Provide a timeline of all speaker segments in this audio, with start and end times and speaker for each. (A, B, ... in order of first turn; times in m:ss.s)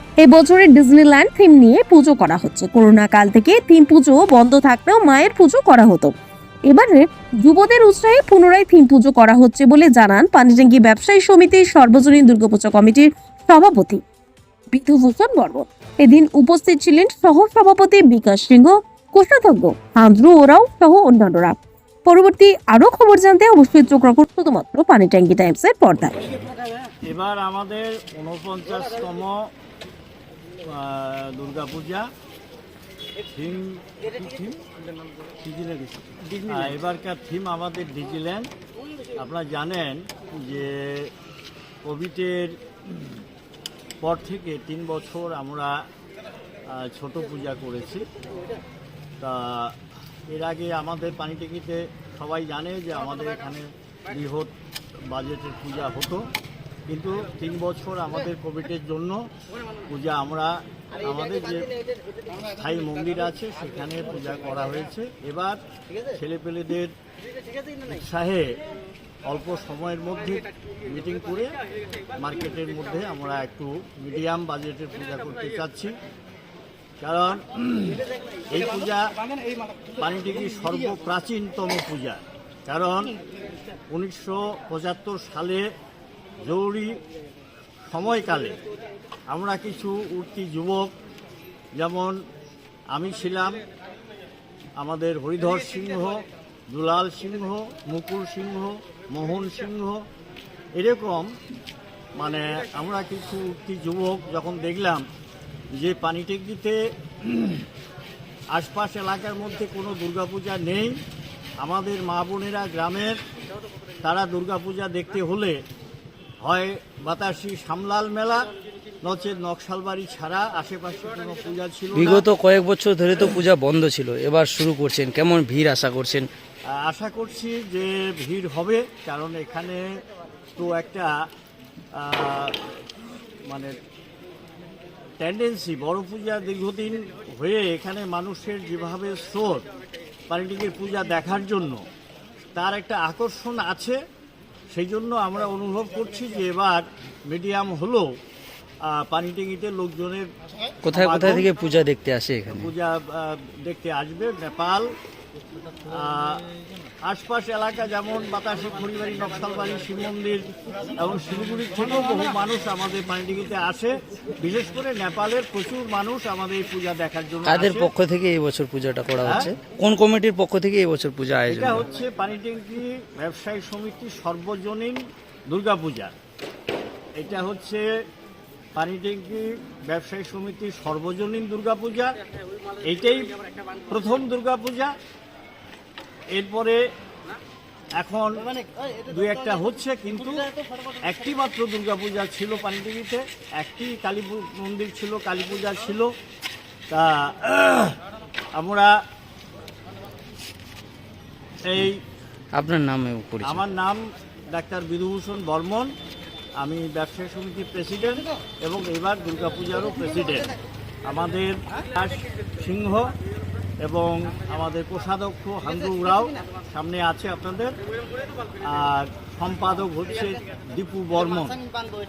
0:00.2-0:06.1 A
0:06.7-0:14.0 A
0:14.7-0:26.2 A
0:27.1-0:29.5 B
0:30.6-0:32.1 B
0:33.3-0:34.6 B
0:35.4-0:38.5 B
0:36.2-0:36.7 C
0:39.1-0:41.1 B
0:41.8-0:42.6 B
0:44.0-0:45.7 B
0:46.7-0:48.0 B
0:49.2-0:49.7 B
0:50.3-0:54.5 B
0:55.1-0:56.2 B
0:56.9-0:59.2 B
0:59.9-1:01.7 B
1:02.4-1:05.6 B
1:06.1-1:06.9 B
1:07.8-1:08.5 B
1:09.2-1:11.5 B
1:12.2-1:15.9 B
1:17.0-1:18.0 B
1:18.5-1:19.0 B
1:20.0-1:23.1 B
1:23.9-1:25.6 B
1:26.4-1:27.0 B
1:27.9-1:28.6 B
1:29.3-1:30.9 B
1:31.8-1:32.2 B
1:32.9-1:33.6 B
1:34.8-1:40.0 B
1:40.8-1:41.3 B
1:42.2-1:45.0 B
1:45.8-1:47.6 B
1:48.5-1:51.0 B
1:51.6-1:53.2 B
1:54.0-1:55.6 B
1:56.4-1:58.4 B
1:59.0-2:02.2 B
2:01.9-2:06.3 C
2:06.7-2:09.8 B
2:10.5-2:11.1 B
2:12.0-2:12.6 B
2:13.5-2:13.7 B
2:15.2-2:19.6 B
2:20.3-2:21.8 B
2:22.5-2:24.0 B
2:24.7-2:28.1 B
2:28.8-2:30.2 B
2:30.8-2:32.7 C
2:30.9-2:31.5 B
2:32.5-2:34.9 B
2:35.9-2:36.4 B
2:37.0-2:47.9 B
2:47.4-2:51.9 C
2:49.2-2:49.5 B
2:51.5-2:56.1 B
2:57.2-2:57.8 B
2:58.7-3:02.1 B
3:02.8-3:03.3 B
3:03.9-3:04.9 B
3:06.3-3:06.8 B
3:08.0-3:08.5 B
3:09.0-3:10.5 B
3:11.0-3:16.1 B
3:16.9-3:18.0 B
3:18.5-3:18.9 B
3:21.6-3:22.0 B
3:22.5-3:23.6 C
3:23.4-3:25.9 B
3:26.6-3:30.5 B
3:31.0-3:33.1 B
3:33.8-3:37.7 B
3:38.6-3:41.6 B